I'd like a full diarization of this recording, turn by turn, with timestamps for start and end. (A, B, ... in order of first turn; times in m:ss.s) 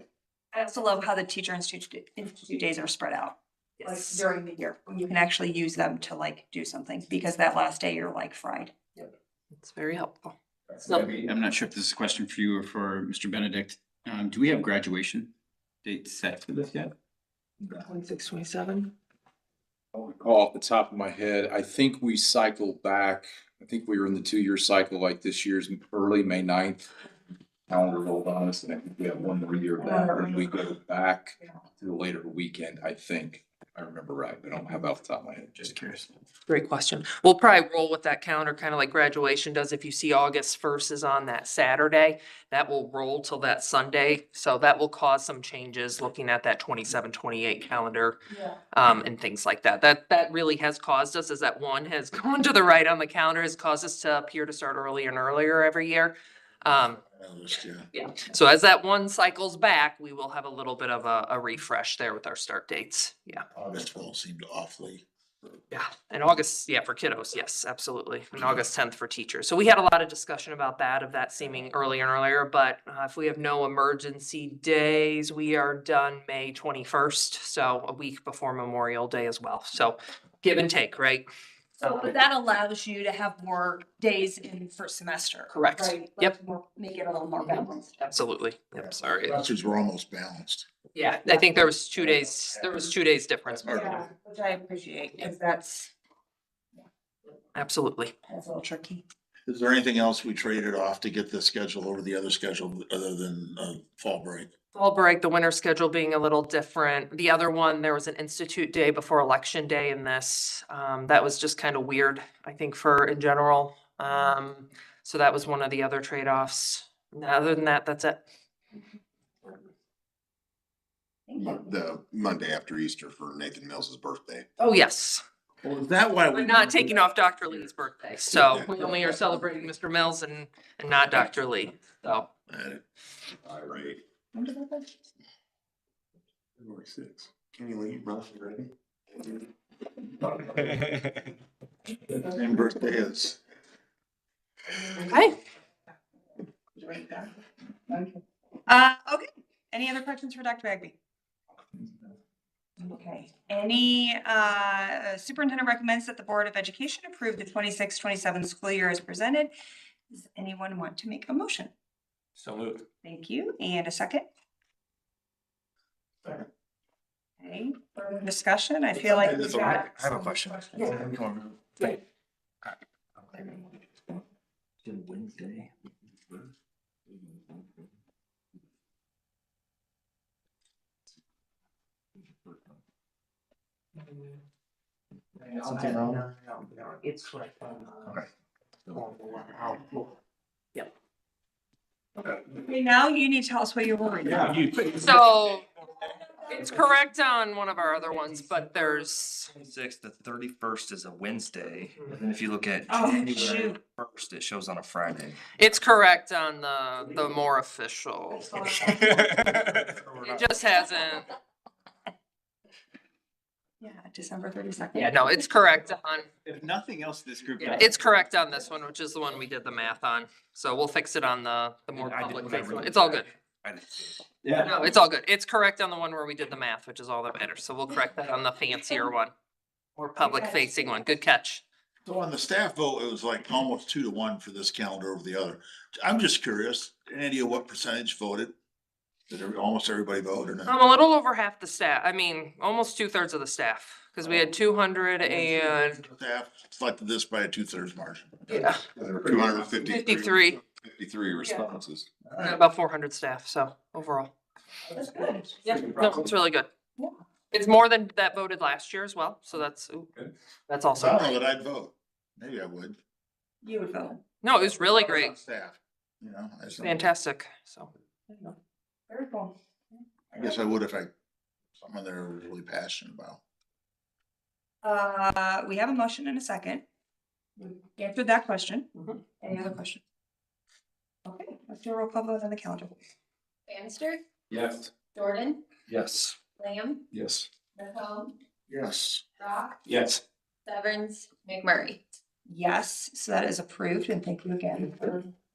0:00.5-0:08.8 A
0:03.8-0:04.2 B
0:09.6-0:10.4 B
0:10.8-0:15.3 C
0:15.8-0:16.9 C
0:17.8-0:18.9 B
0:19.9-0:26.9 D
0:27.7-0:35.8 D
0:29.8-0:30.4 A
0:36.5-0:48.2 B
0:48.3-0:48.6 A
0:48.7-0:57.0 B
0:56.7-0:57.9 E
0:57.9-1:03.5 B
1:03.7-1:05.0 E
1:05.7-1:21.2 B
1:21.8-1:28.0 A
1:25.5-1:26.4 B
1:27.5-1:29.4 B
1:29.2-1:30.7 E
1:31.0-1:33.8 B
1:33.6-1:34.0 E
1:33.7-1:35.9 A
1:37.6-1:38.1 B
1:38.3-1:39.0 A
1:39.5-1:44.5 E
1:44.7-1:58.2 B
2:01.3-2:01.7 A
2:01.4-2:04.5 F
2:04.6-2:05.2 B
2:05.6-2:07.0 E
2:06.3-2:12.3 B
2:08.3-2:09.1 E
2:12.5-2:12.8 E
2:13.4-2:14.0 F
2:14.3-2:14.9 A
2:16.6-2:18.7 F
2:22.2-2:23.4 E
2:25.1-2:25.4 B
2:26.8-2:27.3 A
2:27.9-2:30.9 A
2:32.8-2:39.5 A
2:40.1-2:41.7 A
2:43.0-2:44.2 A
2:47.4-2:50.1 A
2:49.2-2:51.5 G
2:54.8-2:55.7 G
3:06.0-3:07.8 B
3:12.3-3:15.0 A
3:14.9-3:15.7 B
3:16.1-3:16.8 A
3:16.4-3:19.5 B
3:19.5-3:25.4 G
3:22.9-3:23.8 A
3:25.6-3:28.6 B
3:28.4-3:29.9 A
3:30.1-3:31.3 B
3:33.8-3:35.5 A
3:34.9-3:36.3 B
3:37.6-3:43.3 B
3:42.0-3:42.8 D
3:43.6-3:44.1 D
3:44.6-3:49.3 B
3:50.0-3:51.6 B
3:50.2-3:51.0 A
3:52.0-3:58.5 E
3:59.3-4:00.7 E
4:00.7-4:06.0 B
4:06.1-4:08.5 E
4:08.5-4:08.8 B
4:08.9-4:12.1 F
4:09.8-4:10.6 B
4:12.4-4:14.3 B
4:14.9-4:15.6 A
4:15.6-4:16.7 B
4:17.5-4:20.1 B
4:20.7-4:21.4 B
4:21.0-4:23.0 E
4:23.6-4:24.2 A
4:24.4-4:25.4 B
4:24.8-4:27.0 E
4:26.8-4:27.9 B
4:28.3-4:28.6 A
4:29.1-4:30.0 A
4:30.3-4:31.1 E
4:31.8-4:33.4 E
4:34.8-4:36.8 A
4:37.6-4:38.9 A
4:39.4-4:40.0 A
4:41.2-4:43.0 A
4:43.7-4:44.2 H
4:45.1-4:45.6 H
4:46.6-4:47.0 H
4:47.8-4:48.3 A
4:48.7-4:49.2 E
4:50.7-4:52.0 H
4:52.5-4:55.3 A